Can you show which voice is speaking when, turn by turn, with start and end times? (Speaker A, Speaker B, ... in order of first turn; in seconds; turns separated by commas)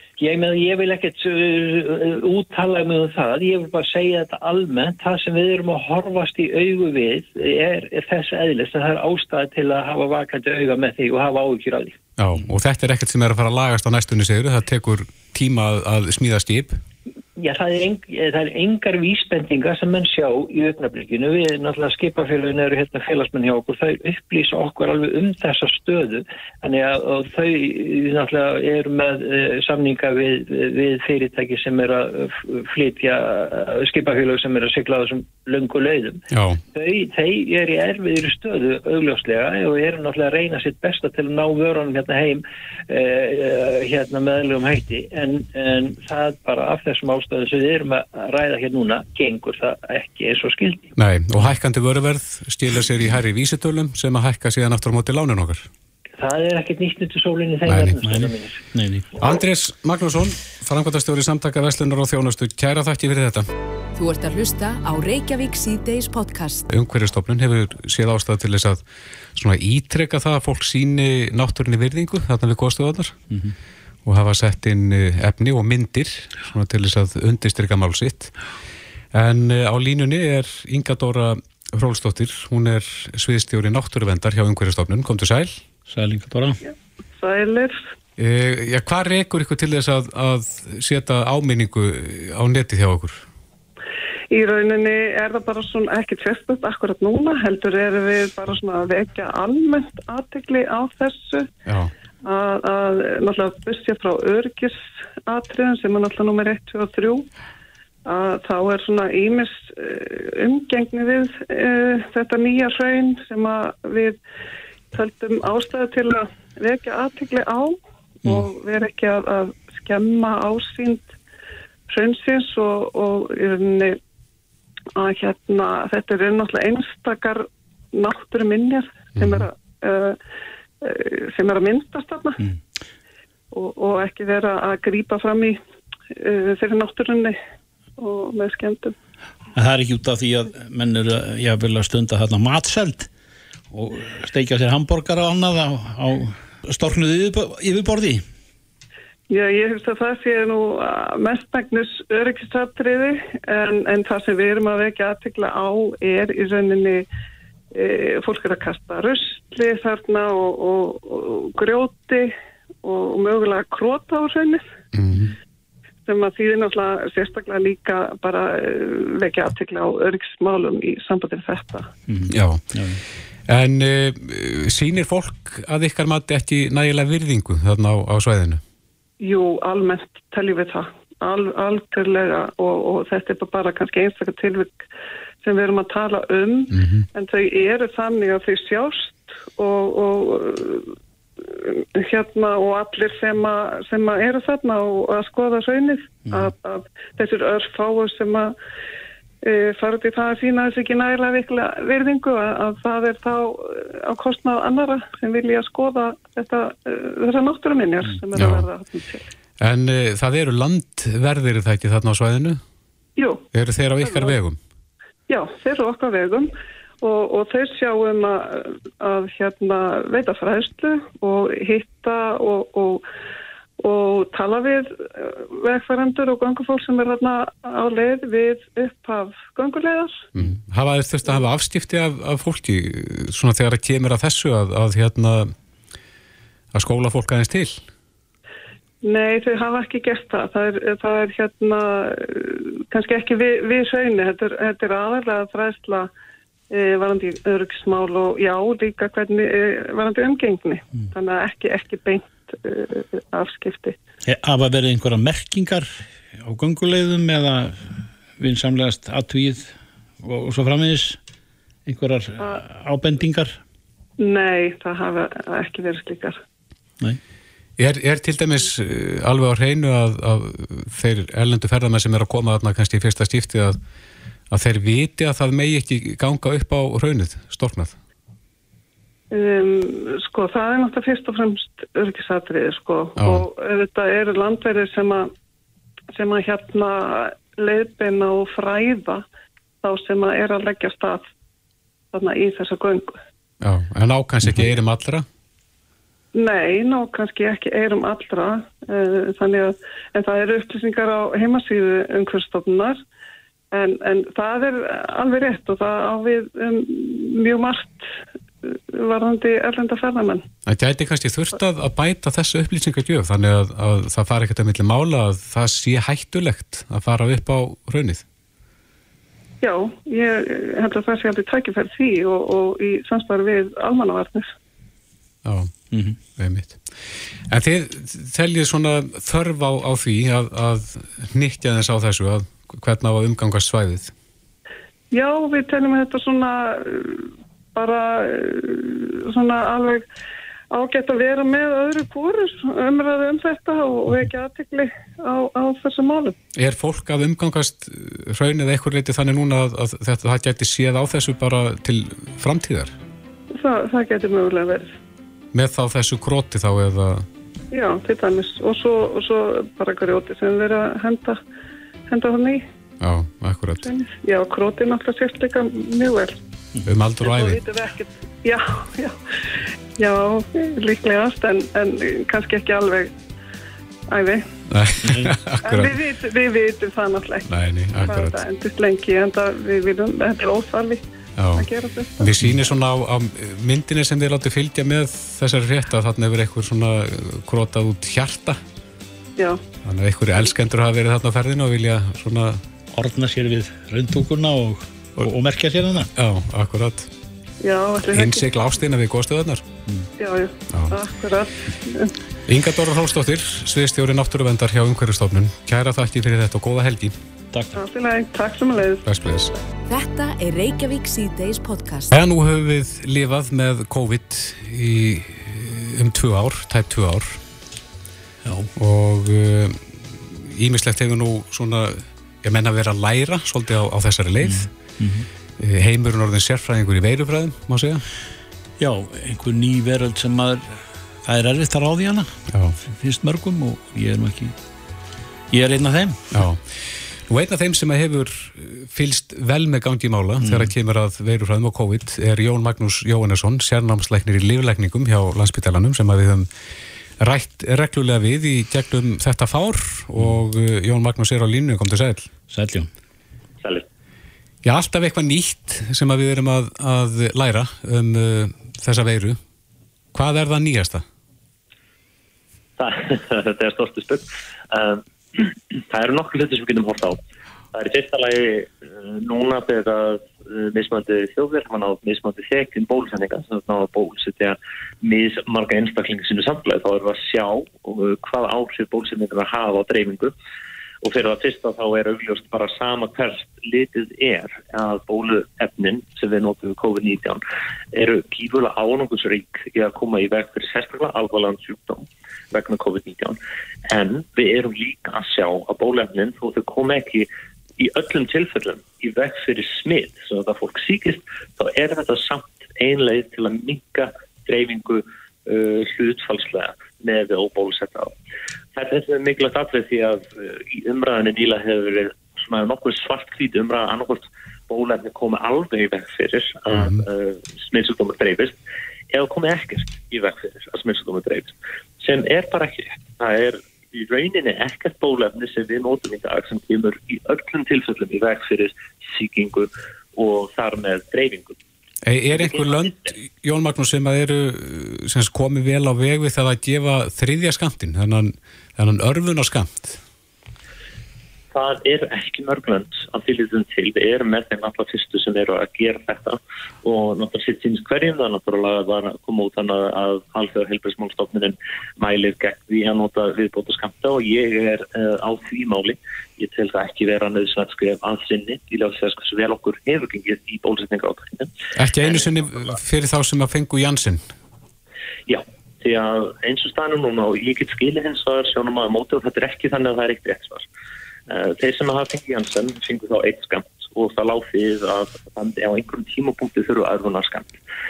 Speaker A: 0.2-11.9, Speaker B: 12.2-16.8, Speaker A: 17.4-50.9, Speaker B: 36.3-36.6, Speaker B: 51.0-55.7, Speaker A: 56.2-58.6, Speaker B: 57.7-57.9, Speaker C: 58.0-59.0, Speaker B: 59.2-63.5, Speaker D: 64.0-66.7, Speaker B: 66.7-68.8, Speaker B: 69.3-73.2, Speaker B: 74.0-78.3, Speaker B: 79.1-85.6, Speaker C: 85.9-86.6, Speaker E: 86.7-87.9, Speaker B: 88.2-93.2, Speaker E: 94.3-101.5, Speaker B: 101.7-101.9, Speaker E: 102.2-107.3, Speaker E: 108.0-114.2, Speaker E: 114.9-121.1, Speaker E: 121.9-124.0, Speaker E: 125.0-130.2, Speaker B: 129.2-129.5, Speaker E: 130.8-132.4, Speaker E: 133.5-135.6, Speaker E: 136.1-137.4, Speaker E: 138.0-138.9, Speaker C: 139.5-143.1, Speaker C: 143.7-148.2, Speaker E: 149.3-157.0, Speaker E: 157.7-164.7, Speaker B: 164.9-165.3, Speaker E: 166.1-171.9, Speaker C: 172.1-173.0, Speaker B: 172.3-172.6, Speaker B: 173.5-178.6, Speaker E: 179.2-184.7, Speaker E: 185.4-198.5, Speaker B: 186.7-187.1, Speaker C: 196.3-196.5, Speaker E: 199.4-209.2, Speaker B: 208.3-208.7, Speaker B: 209.6-212.6, Speaker E: 213.2-213.4, Speaker B: 213.5-214.6, Speaker E: 214.0-214.3, Speaker E: 215.3-216.5, Speaker E: 217.0-223.0, Speaker E: 223.8-230.2, Speaker B: 230.3-235.5, Speaker B: 236.7-237.8, Speaker E: 239.0-246.1, Speaker E: 246.7-254.0, Speaker C: 254.2-261.2, Speaker C: 261.9-263.6, Speaker E: 264.2-266.4, Speaker B: 267.8-273.8, Speaker B: 274.5-278.0, Speaker E: 279.3-285.3, Speaker B: 283.2-283.4, Speaker E: 286.1-289.2, Speaker E: 289.8-291.3, Speaker E: 292.1-293.2, Speaker B: 293.6-295.2, Speaker E: 296.3-303.0, Speaker E: 303.7-308.1, Speaker E: 308.6-310.4, Speaker B: 310.7-318.2, Speaker E: 319.6-324.5, Speaker B: 325.4-325.7, Speaker C: 325.9-326.2, Speaker B: 326.4-326.8, Speaker B: 327.5-334.1, Speaker E: 335.1-340.1, Speaker E: 340.7-346.4, Speaker B: 346.6-352.9, Speaker E: 353.5-354.9, Speaker B: 355.5-357.3, Speaker E: 357.7-361.4, Speaker E: 362.1-362.6, Speaker B: 363.0-363.9, Speaker E: 363.8-366.4, Speaker B: 366.8-367.6, Speaker E: 367.2-369.2, Speaker E: 370.0-373.1, Speaker E: 374.1-374.5, Speaker B: 374.7-376.0, Speaker C: 375.1-375.3, Speaker E: 375.6-377.5, Speaker B: 377.5-378.4, Speaker E: 378.0-382.3, Speaker B: 381.4-381.6, Speaker B: 382.2-388.6, Speaker B: 389.8-392.6, Speaker C: 392.9-396.1, Speaker B: 396.1-397.1, Speaker E: 397.6-398.4, Speaker B: 398.1-399.6, Speaker E: 400.2-402.1, Speaker B: 402.5-407.1, Speaker C: 407.5-407.8, Speaker E: 407.8-409.0, Speaker B: 409.1-409.5, Speaker D: 409.9-412.1, Speaker B: 412.1-417.4, Speaker C: 418.4-418.7, Speaker B: 418.8-424.7, Speaker C: 424.4-425.2, Speaker B: 425.6-428.0, Speaker C: 428.8-434.6, Speaker B: 432.5-432.8, Speaker C: 435.5-436.3, Speaker B: 436.3-436.6, Speaker B: 437.3-446.5, Speaker C: 440.4-440.7, Speaker B: 447.2-452.3, Speaker C: 450.1-450.4, Speaker C: 452.5-452.9, Speaker F: 453.6-453.9, Speaker B: 454.6-459.4, Speaker B: 460.1-461.0, Speaker F: 462.8-467.2, Speaker F: 467.7-480.3, Speaker F: 481.0-487.4, Speaker F: 487.9-493.4, Speaker F: 493.9-497.3, Speaker F: 497.8-508.1, Speaker F: 508.7-518.6, Speaker B: 516.7-517.0, Speaker F: 519.1-531.5, Speaker B: 532.0-540.0, Speaker F: 532.3-532.9, Speaker F: 541.5-562.3, Speaker B: 561.7-564.2, Speaker F: 565.3-570.6, Speaker F: 571.3-577.5